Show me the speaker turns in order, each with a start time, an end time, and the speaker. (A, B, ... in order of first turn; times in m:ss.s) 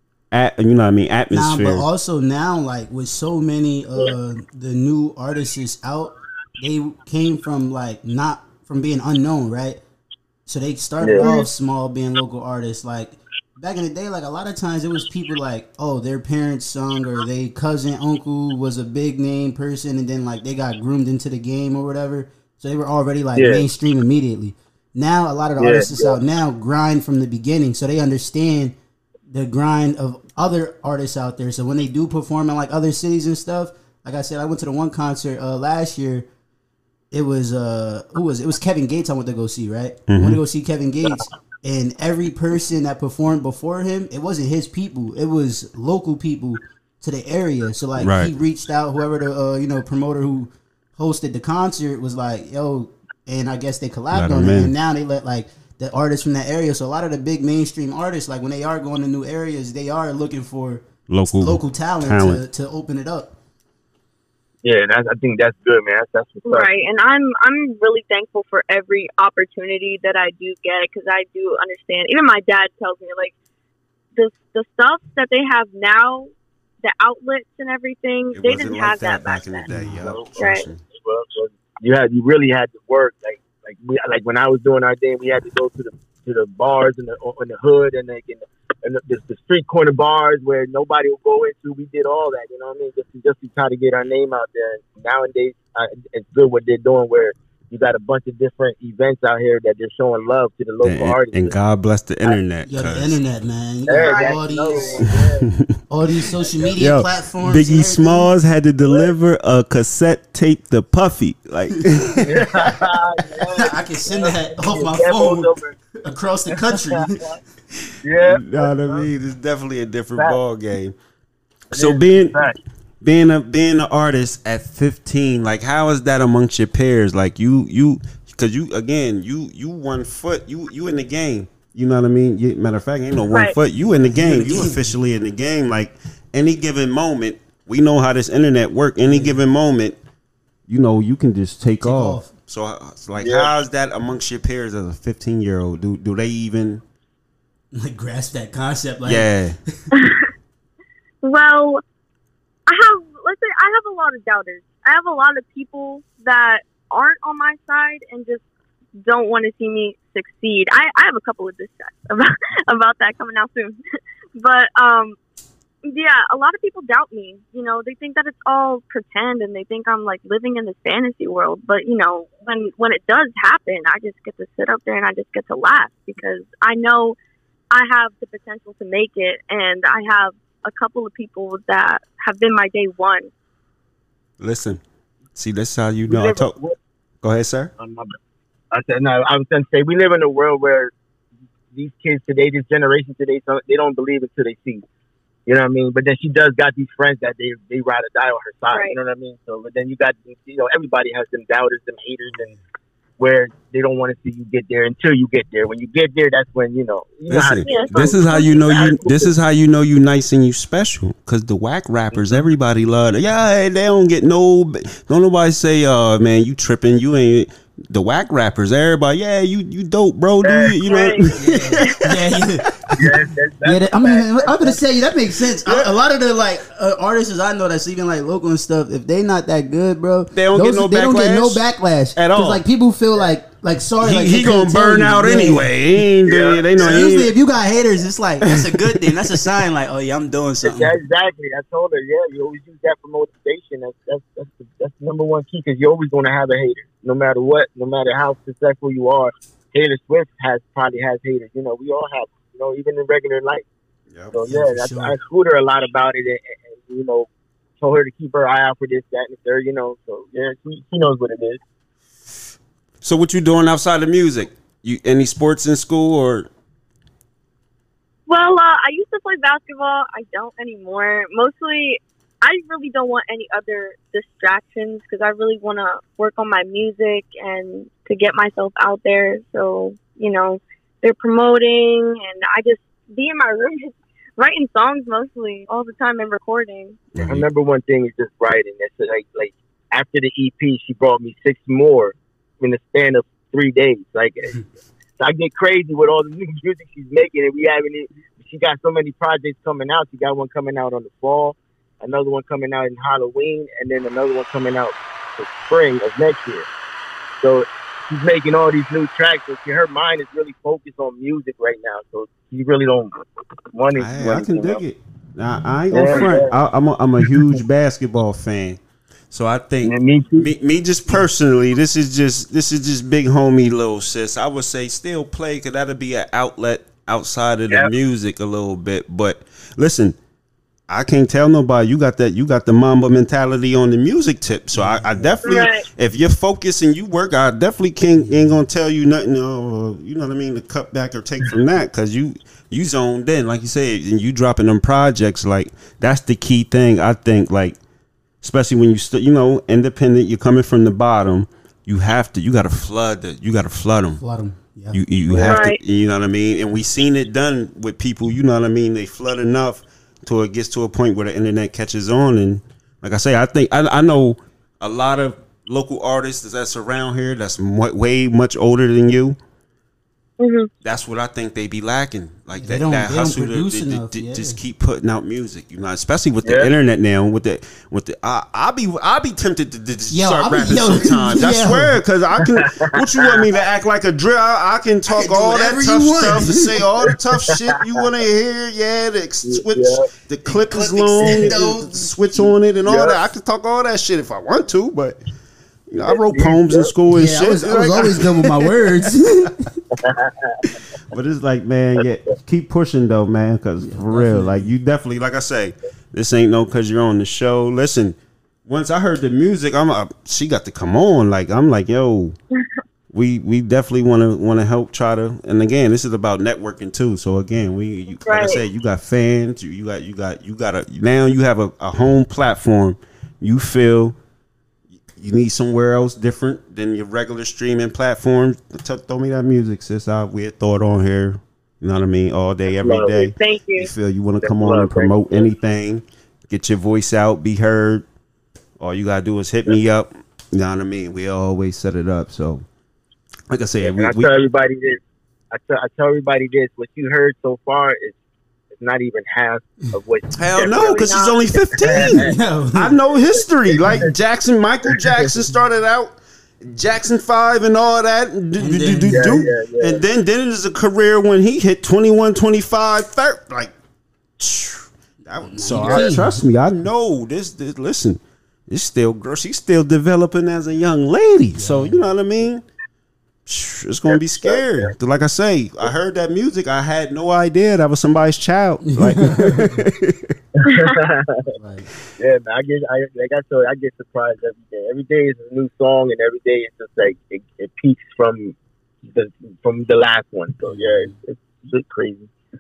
0:00.3-0:01.9 A
0:01.3-0:09.8 B
0:10.5-0:28.8 B
0:11.0-0:11.3 C
0:11.2-0:11.5 D
0:23.4-0:23.6 C
0:25.6-0:26.2 C
0:29.3-0:36.3 B
0:37.1-1:03.4 B
0:40.1-0:40.4 A
0:48.0-0:48.3 A
0:54.1-0:54.7 A
1:01.1-1:02.4 A
1:04.6-1:06.7 C
1:06.5-1:13.3 D
1:14.2-1:16.3 D
1:16.8-1:19.7 D
1:18.3-1:20.8 A
1:19.7-1:20.0 B
1:20.0-1:41.6 C
1:20.4-1:20.6 D
1:40.8-1:43.2 A
1:42.7-1:45.1 B
1:43.9-1:45.5 C
1:44.0-1:45.1 D
1:45.4-1:45.8 A
1:45.9-1:48.3 B
1:46.4-1:46.8 C
1:46.8-1:52.8 A
1:52.2-1:55.8 C
1:53.5-1:57.4 B
1:56.6-1:56.9 C
1:58.0-1:59.0 C
1:58.2-2:01.0 A
2:01.7-2:02.4 A
2:01.7-2:02.6 C
2:03.0-2:20.0 A
2:14.0-2:14.8 B
2:19.1-2:19.4 B
2:20.7-2:26.8 A
2:21.8-2:22.3 B
2:23.2-2:23.5 C
2:27.7-2:29.9 B
2:29.0-2:29.6 A
2:29.9-2:30.3 D
2:31.2-2:31.8 D
2:32.7-2:38.4 D
2:39.0-2:43.8 D
2:44.4-2:45.2 D
2:45.8-2:57.2 D
2:57.7-3:03.3 D
3:04.4-3:04.8 A
3:05.4-3:06.6 A
3:06.1-3:06.8 C
3:07.2-3:07.7 A
3:07.8-3:08.1 C
3:08.7-3:10.9 C
3:11.7-3:14.8 C
3:15.5-3:22.5 C
3:18.7-3:19.0 D
3:22.3-3:22.6 B
3:23.2-3:29.3 C
3:27.3-3:42.1 A
3:27.7-3:28.6 D
3:40.4-3:40.8 C
3:40.9-3:41.9 D
3:41.4-3:43.0 B
3:43.0-3:44.8 C
3:43.6-3:55.7 B
3:45.6-3:45.9 A
3:50.3-3:51.6 A
3:52.2-3:52.6 A
3:54.0-3:57.3 A
3:56.3-3:57.0 C
3:56.8-4:01.0 B
3:58.4-3:59.5 A
4:00.6-4:13.6 C
4:14.3-4:17.3 C
4:14.5-4:15.2 B
4:17.8-4:21.6 C
4:23.0-4:26.5 A
4:28.3-4:47.0 D
4:47.1-4:47.5 A
4:47.3-4:54.6 C
4:55.2-5:06.7 C
5:07.4-5:13.1 C
5:13.7-5:14.8 C
5:14.0-5:30.2 A
5:15.9-5:16.5 C
5:19.8-5:20.5 C
5:30.9-5:47.8 A
5:34.7-5:35.4 B
5:35.4-5:35.8 D
5:38.2-5:38.6 B
5:48.4-5:54.2 A
5:54.2-5:55.0 B
5:54.9-6:09.4 A
5:55.3-5:55.6 C
5:55.4-5:55.8 D
6:10.4-6:10.7 D
6:10.8-6:35.2 A
6:12.6-6:14.6 B
6:16.4-6:16.7 C
6:20.1-6:22.0 B
6:25.1-6:26.8 B
6:29.4-6:30.1 C
6:30.4-6:32.2 B
6:31.2-6:31.6 C
6:32.9-6:33.2 C
6:35.9-6:38.8 A
6:36.1-6:36.9 C
6:37.1-6:39.8 B
6:40.0-6:40.5 C
6:41.1-6:52.4 A
6:43.8-6:44.7 B
6:53.1-7:04.2 A
6:58.3-6:58.6 D
7:05.2-7:18.0 A
7:12.8-7:13.2 C
7:13.2-7:13.9 D
7:14.4-7:15.5 C
7:18.8-7:22.6 A
7:23.5-7:24.3 A
7:23.8-7:28.2 C
7:28.7-7:31.1 C
7:30.3-7:43.7 A
7:30.6-7:31.9 D
7:31.8-7:32.3 C
7:32.0-7:33.0 B
7:33.1-7:34.1 C
7:38.6-7:39.4 B
7:39.1-7:40.0 C
7:44.4-7:52.6 A
7:45.4-7:46.4 B
7:45.8-7:46.1 C
7:51.6-7:52.0 B
7:53.5-8:00.4 A
7:54.1-7:54.9 C
7:58.9-7:59.9 B
8:00.6-8:01.6 C
8:01.5-8:01.9 B
8:02.2-8:12.3 C
8:10.6-8:11.1 B